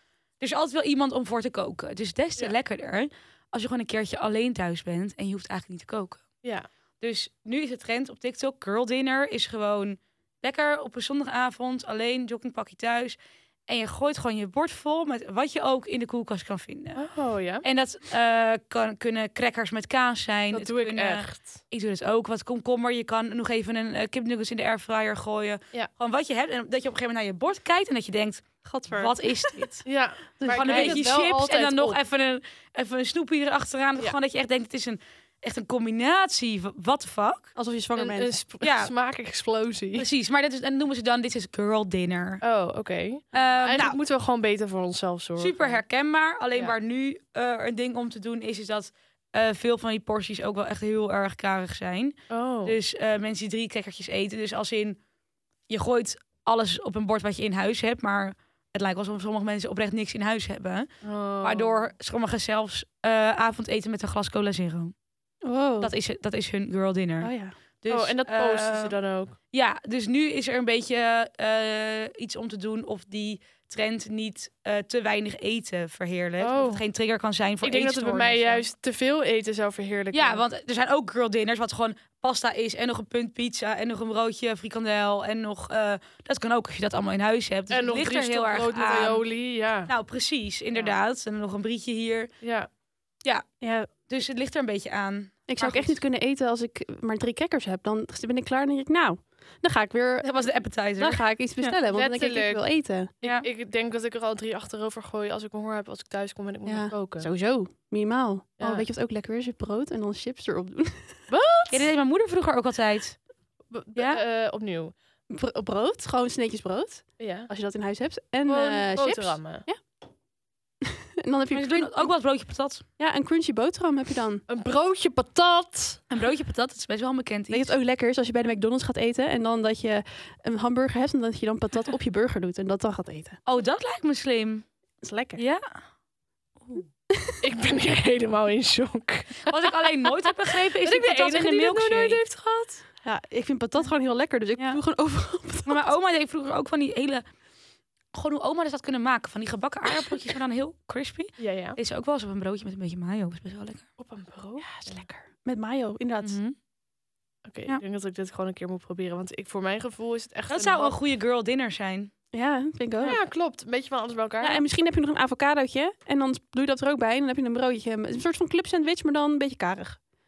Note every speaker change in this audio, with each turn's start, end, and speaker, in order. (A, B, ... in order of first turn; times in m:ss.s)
0:00.4-0:06.3 A
0:07.0-0:17.0 A
0:17.0-0:17.6 B
0:17.6-0:29.8 A
0:20.5-0:21.6 B
0:28.6-0:29.7 C
0:29.8-0:32.0 B
0:30.4-0:31.0 C
0:30.5-0:37.5 A
0:37.6-0:38.3 C
0:38.0-0:40.1 B
0:38.6-0:38.9 A
0:40.0-0:42.4 A
0:42.4-0:45.8 B
0:43.3-0:44.0 A
0:45.4-0:55.0 A
0:52.3-0:52.8 B
0:55.7-1:04.9 A
1:01.0-1:01.9 B
1:05.4-1:05.9 C
1:05.8-1:08.9 A
1:07.2-1:07.6 C
1:07.9-1:09.4 B
1:09.5-1:18.6 A
1:16.4-1:16.8 B
1:17.6-1:20.4 B
1:20.1-1:29.3 A
1:27.7-1:29.9 B
1:29.9-1:32.3 A
1:32.4-1:32.7 B
1:33.2-1:36.0 A
1:33.6-1:33.9 C
1:35.5-1:40.4 C
1:40.2-1:41.8 A
1:41.0-1:43.1 C
1:41.9-1:47.3 B
1:46.7-1:51.2 C
1:48.6-1:48.9 B
1:51.3-1:51.9 B
1:51.7-1:53.2 A
1:53.7-1:54.9 B
1:54.0-1:54.2 A
1:55.3-1:59.8 C
1:57.2-1:57.5 B
1:58.5-1:59.6 B
2:00.8-2:02.1 C
2:01.5-2:02.8 A
2:03.0-2:04.4 C
2:04.5-2:06.0 B
2:06.1-2:07.7 A
2:07.5-2:13.4 C
2:13.5-2:14.7 A
2:15.0-2:15.4 C
2:15.4-2:15.6 A
2:17.1-2:17.4 C
2:17.4-2:19.5 B
2:19.5-2:22.2 A
2:20.8-2:22.8 B
2:23.0-2:25.9 C
2:25.6-2:27.2 A
2:28.1-2:33.9 A
2:31.4-2:31.8 B
2:34.0-2:35.1 B
2:34.6-2:36.4 C
2:36.2-2:36.6 A
2:37.4-2:41.0 B
2:40.5-2:42.1 A
2:42.3-2:43.2 C
2:43.0-2:44.6 B
2:44.4-2:50.0 C